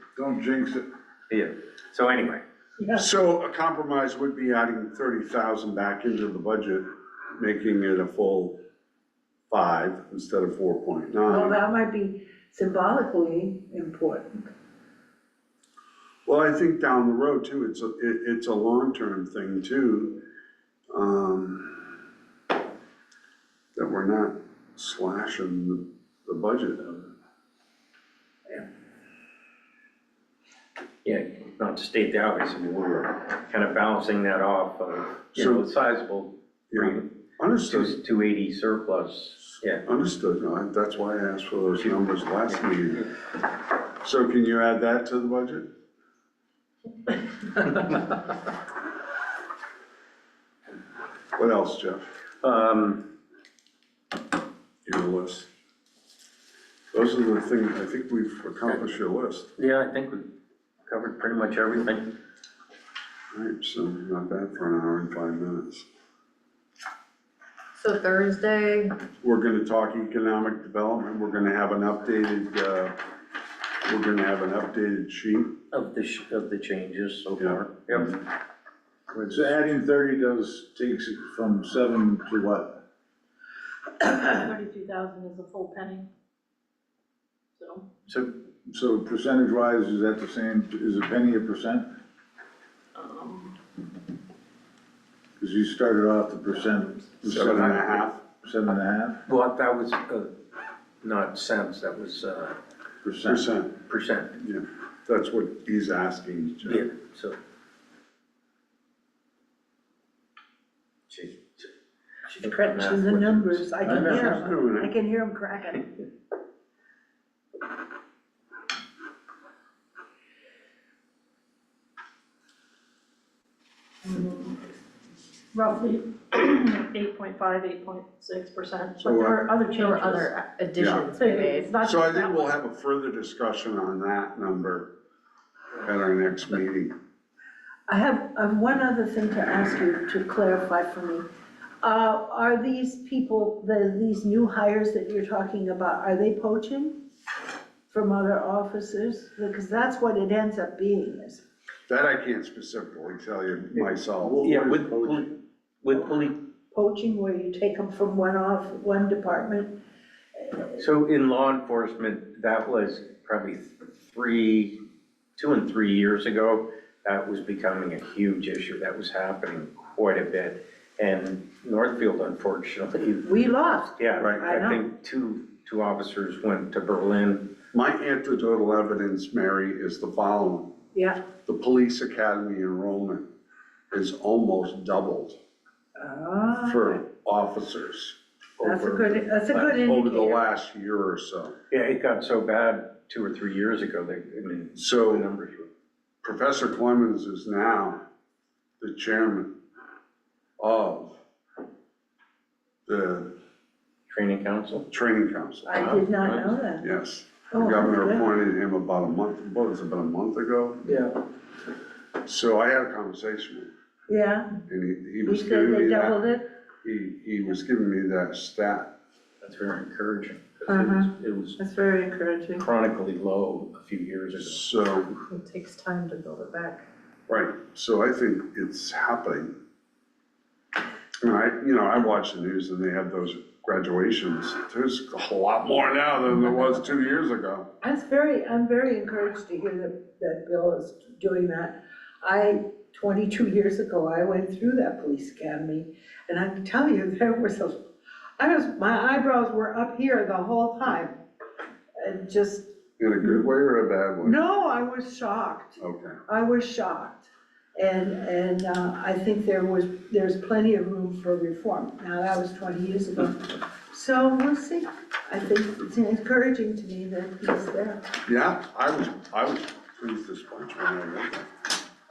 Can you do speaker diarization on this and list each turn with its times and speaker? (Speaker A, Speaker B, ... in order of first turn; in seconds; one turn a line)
Speaker A: 0.2-0.8
Speaker B: 1.3-2.4
Speaker C: 2.8-3.1
Speaker D: 3.0-8.6
Speaker D: 9.5-11.6
Speaker C: 11.3-14.5
Speaker D: 16.2-20.2
Speaker D: 20.9-21.9
Speaker D: 23.7-27.1
Speaker B: 31.0-37.1
Speaker D: 35.3-35.6
Speaker D: 36.7-38.0
Speaker B: 37.6-39.8
Speaker D: 39.9-43.0
Speaker B: 41.8-43.0
Speaker D: 44.0-45.6
Speaker B: 47.6-48.0
Speaker D: 51.4-52.0
Speaker B: 52.4-53.0
Speaker D: 54.8-55.5
Speaker D: 56.9-59.5
Speaker B: 59.6-60.3
Speaker B: 60.9-62.1
Speaker D: 63.3-65.8
Speaker E: 67.8-68.9
Speaker D: 69.2-72.9
Speaker D: 73.8-75.5
Speaker B: 75.7-78.2
Speaker D: 77.4-78.1
Speaker B: 79.1-79.6
Speaker A: 79.2-82.8
Speaker F: 84.0-86.0
Speaker F: 87.6-87.8
Speaker A: 88.7-91.9
Speaker F: 93.0-93.5
Speaker A: 95.4-99.2
Speaker D: 97.2-98.2
Speaker B: 99.2-100.3
Speaker B: 101.0-102.6
Speaker A: 103.0-103.5
Speaker D: 103.3-103.8
Speaker B: 103.8-104.4
Speaker D: 104.4-106.9
Speaker B: 106.6-107.4
Speaker B: 111.1-111.7
Speaker C: 112.3-115.9
Speaker B: 112.3-114.2
Speaker A: 113.8-114.3
Speaker D: 113.9-114.9
Speaker F: 124.2-124.5
Speaker F: 125.5-130.3
Speaker D: 129.0-129.6
Speaker E: 129.7-131.8
Speaker D: 130.8-131.1
Speaker F: 131.1-132.5
Speaker D: 131.8-134.9
Speaker D: 135.8-136.9
Speaker C: 137.9-141.2
Speaker C: 141.8-147.0
Speaker C: 147.9-151.4
Speaker D: 151.9-154.6
Speaker A: 153.8-155.3
Speaker B: 154.4-156.3
Speaker C: 156.7-159.8
Speaker C: 160.4-160.7
Speaker B: 160.8-164.8
Speaker B: 165.4-173.3
Speaker C: 173.2-174.8
Speaker B: 174.0-177.5
Speaker D: 177.7-180.7
Speaker C: 180.9-181.2
Speaker D: 181.4-183.2
Speaker D: 183.9-185.4
Speaker C: 186.0-187.0
Speaker D: 186.6-189.2
Speaker C: 188.6-190.4
Speaker B: 189.5-189.8
Speaker D: 189.8-191.6
Speaker B: 191.7-195.7
Speaker D: 194.8-195.3
Speaker D: 196.2-198.0
Speaker D: 198.8-199.5
Speaker D: 200.6-201.2
Speaker D: 202.8-203.3
Speaker B: 204.1-204.9
Speaker D: 204.9-205.9
Speaker C: 205.6-206.8
Speaker B: 205.7-206.6
Speaker D: 206.8-211.0
Speaker C: 207.5-208.3
Speaker B: 210.8-211.1
Speaker D: 212.2-213.7
Speaker C: 214.1-214.5
Speaker D: 214.7-216.2
Speaker C: 215.2-216.4
Speaker D: 216.8-218.9
Speaker B: 219.4-221.6
Speaker C: 220.7-222.7
Speaker B: 222.6-224.7
Speaker D: 224.3-225.1
Speaker E: 225.2-226.8
Speaker D: 227.3-229.5
Speaker D: 231.2-237.7
Speaker C: 237.8-247.8
Speaker C: 248.4-251.2
Speaker C: 252.0-252.7
Speaker D: 253.0-254.4
Speaker C: 254.2-268.0
Speaker D: 255.8-256.2
Speaker D: 268.2-271.5